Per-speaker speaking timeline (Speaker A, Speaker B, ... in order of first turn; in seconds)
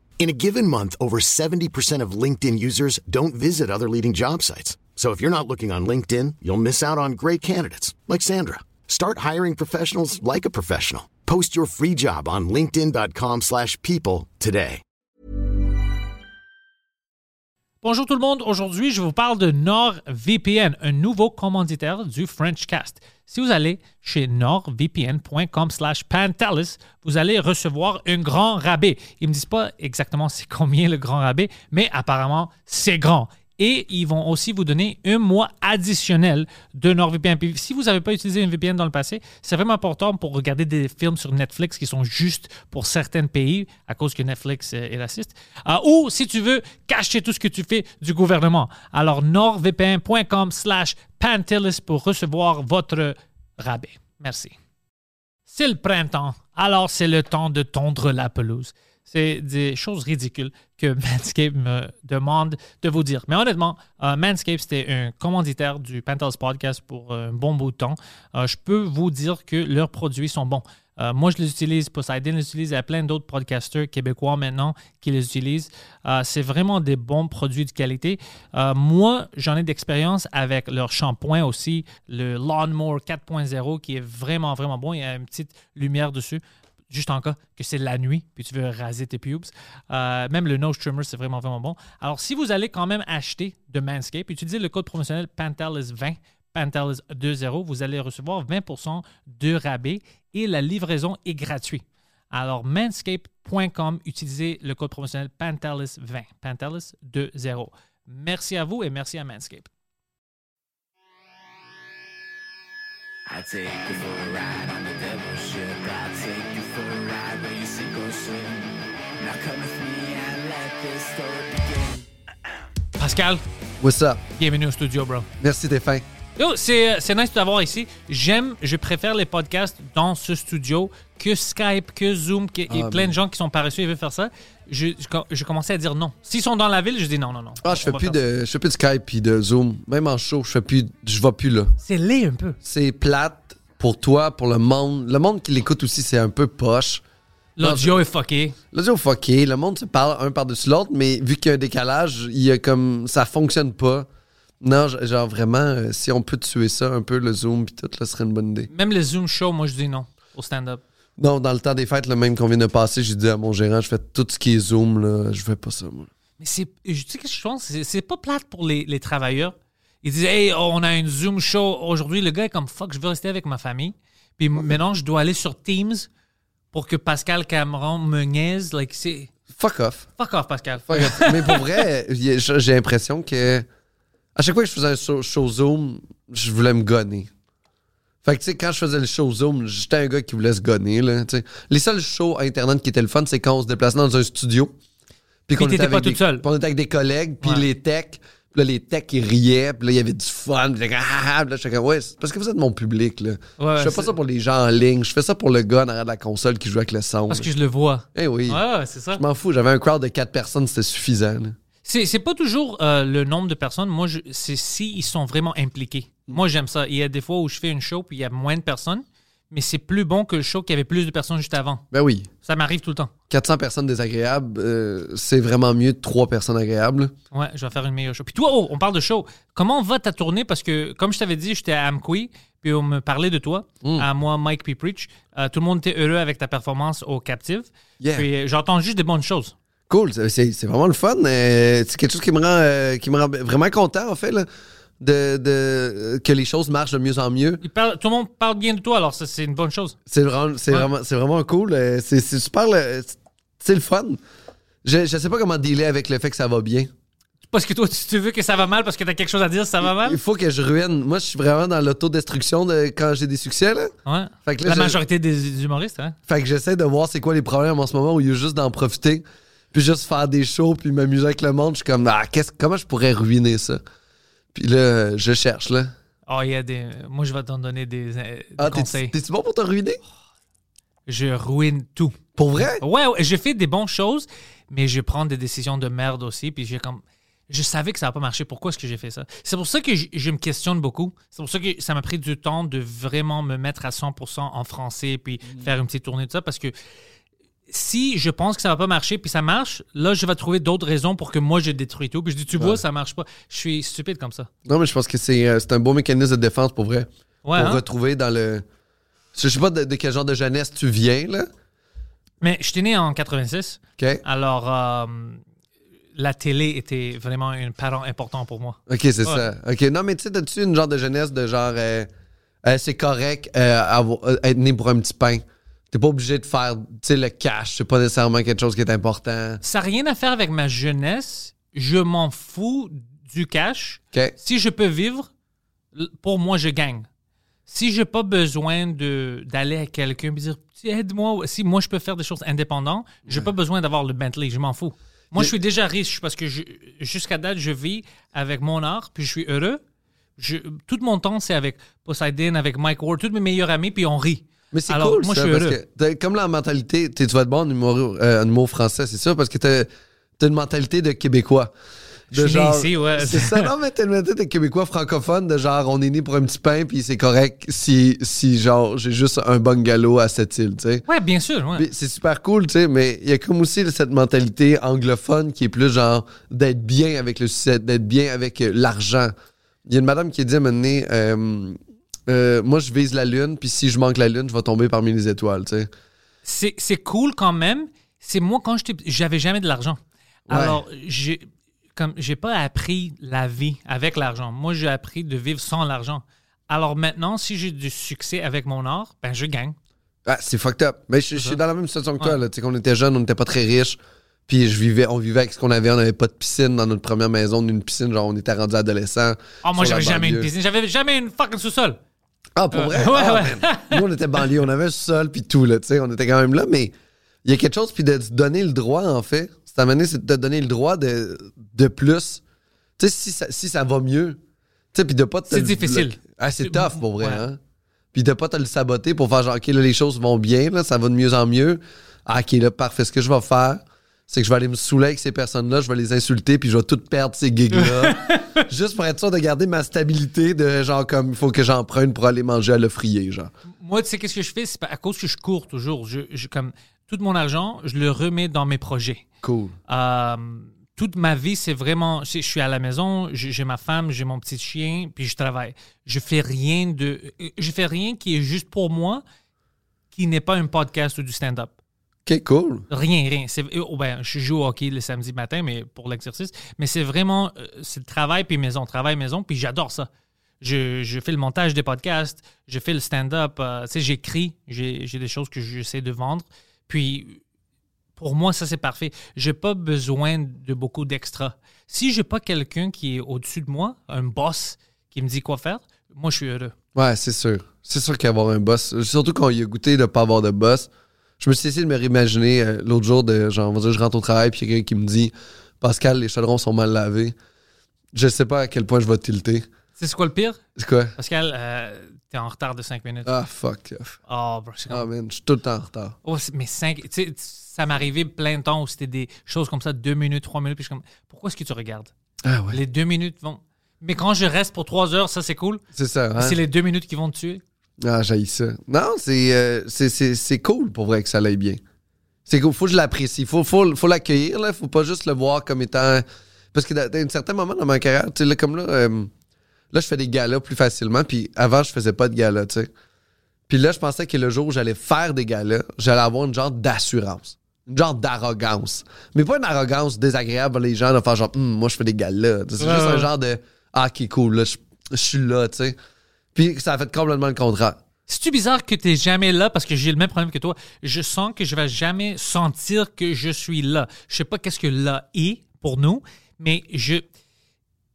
Speaker A: 0.2-14.8
Speaker B: 17.8-54.5, 55.5-109.7, 123.0-123.4, 124.3-125.3, 126.4-138.2, 141.8-142.6, 147.6-148.6, 158.7-160.8, 166.4-176.1, 176.7-179.3, 180.2-181.8, 195.6-196.4, 203.6-204.1, 207.3-209.2, 211.8-221.8, 222.4-223.1, 227.3-239.5, 247.6-249.9, 257.5-260.2, 264.1-266.2, 276.3-279.1, 281.1-296.7, 297.7-304.5, 307.4-307.8, 312.4-315.4, 316.1-319.5, 329.6-335.3, 335.9-337.1, 337.7-349.8, 350.4-355.8, 362.3-363.7, 371.1-371.9, 386.4-399.8, 409.6-412.0, 412.7-414.0, 425.5-427.4, 437.7-438.6, 443.7-449.2, 449.9-459.2, 460.1-461.7, 462.9-470.1, 470.6-477.4, 478.2-486.7, 500.0-500.6, 501.2-503.3, 504.3-505.1, 506.2-512.1, 512.7-515.8, 516.4-517.6, 542.8-543.3, 548.3-557.2
Speaker C: 113.3-122.0
Speaker D: 123.8-124.2, 125.4-126.0, 132.7-133.2, 137.6-141.8, 142.6-147.0, 147.6-148.0, 148.7-154.1, 154.6-158.7, 161.2-166.1, 179.5-180.1, 180.9-183.7, 184.3-187.3, 188.2-194.7, 195.5-207.5, 208.1-208.6, 209.1-211.6, 221.9-222.3, 223.3-227.1, 238.0-238.3, 239.9-244.5, 245.0-247.6, 250.1-254.2, 254.8-256.9, 259.8-263.9, 264.4-265.0, 266.3-273.8, 274.5-275.9, 278.6-280.0, 282.4-282.8, 302.5-302.8, 304.6-308.6, 309.3-311.5, 314.0-314.2, 318.9-322.1, 322.6-329.6, 354.7-361.7, 362.3-371.0, 371.7-379.3, 379.9-385.9, 390.5-390.8, 400.2-410.5, 412.6-422.4, 423.0-424.4, 424.9-427.6, 428.1-443.5, 449.4-449.8, 462.2-462.9, 486.9-490.9, 491.4-497.3, 498.1-499.6, 500.8-501.1, 503.2-504.2, 504.9-506.2, 512.4-512.8, 515.9-516.6, 518.0-521.8, 522.5-529.3, 529.9-532.9, 533.7-546.0, 546.5-548.0